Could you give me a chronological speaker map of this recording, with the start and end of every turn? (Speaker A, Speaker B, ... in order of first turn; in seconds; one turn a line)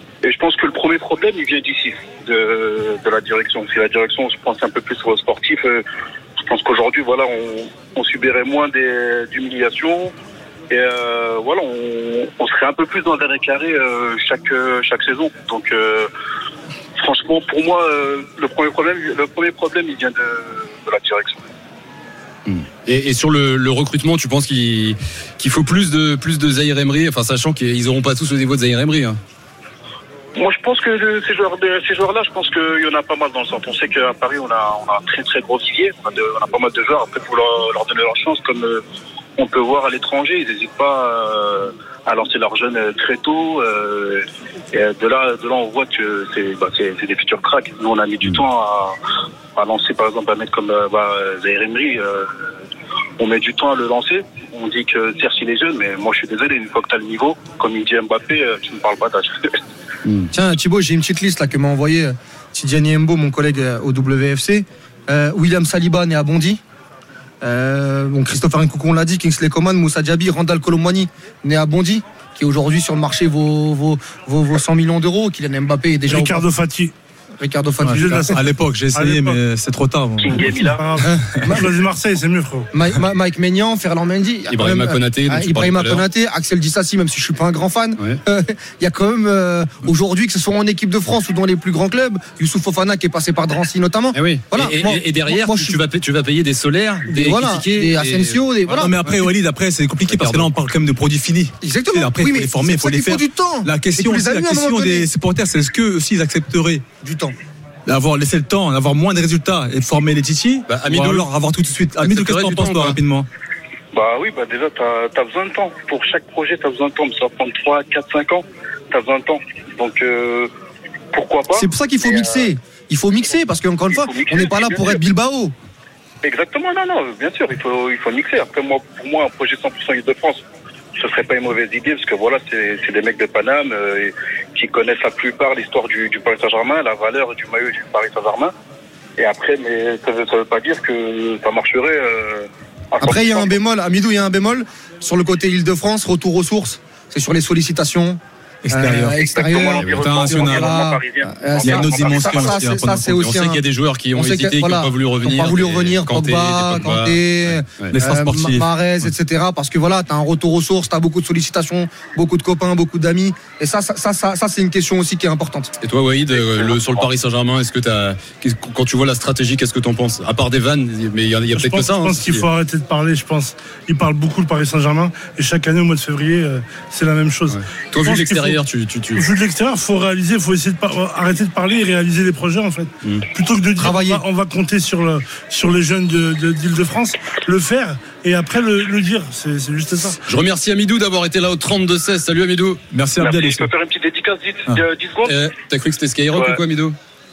Speaker A: 0.2-5.8
Speaker A: 6.4-10.1
Speaker A: 10.7-16.1
Speaker A: 17.0-21.4
Speaker B: 22.5-29.2
Speaker A: 30.4-38.8
Speaker A: 39.4-49.0
Speaker A: 49.6-52.3
Speaker A: 53.2-59.5
Speaker C: 60.3-66.6
Speaker C: 67.4-76.5
Speaker D: 76.1-76.9
Speaker C: 77.4-78.4
Speaker E: 77.8-80.5
Speaker D: 77.9-78.3
Speaker D: 78.9-79.4
Speaker A: 80.2-80.9
Speaker D: 80.8-82.7
Speaker C: 81.3-81.7
Speaker C: 82.7-95.8
Speaker B: 84.5-86.0
Speaker B: 94.1-99.3
Speaker C: 97.1-99.0
Speaker E: 98.7-106.8
Speaker B: 100.1-100.5
Speaker C: 101.6-105.1
Speaker C: 107.0-107.4
Speaker E: 107.9-113.3
Speaker B: 110.7-111.3
Speaker B: 112.0-113.0
Speaker A: 113.9-120.5
Speaker A: 121.1-122.5
Speaker C: 121.5-125.5
Speaker A: 123.9-125.0
Speaker A: 126.2-130.4
Speaker A: 131.0-138.5
Speaker A: 139.2-143.6
Speaker C: 143.0-148.2
Speaker E: 148.6-149.2
Speaker C: 148.7-153.6
Speaker A: 148.9-152.6
Speaker B: 149.8-150.1
Speaker E: 149.9-150.7
Speaker E: 151.6-153.2
Speaker B: 153.0-157.9
Speaker C: 154.1-165.7
Speaker E: 157.9-158.7
Speaker B: 165.8-172.4
Speaker D: 171.6-178.6
Speaker B: 177.5-179.2
Speaker D: 179.2-190.2
Speaker C: 183.8-184.2
Speaker B: 190.3-192.8
Speaker E: 192.9-193.7
Speaker A: 193.2-195.4
Speaker B: 195.2-196.9
Speaker A: 196.3-196.6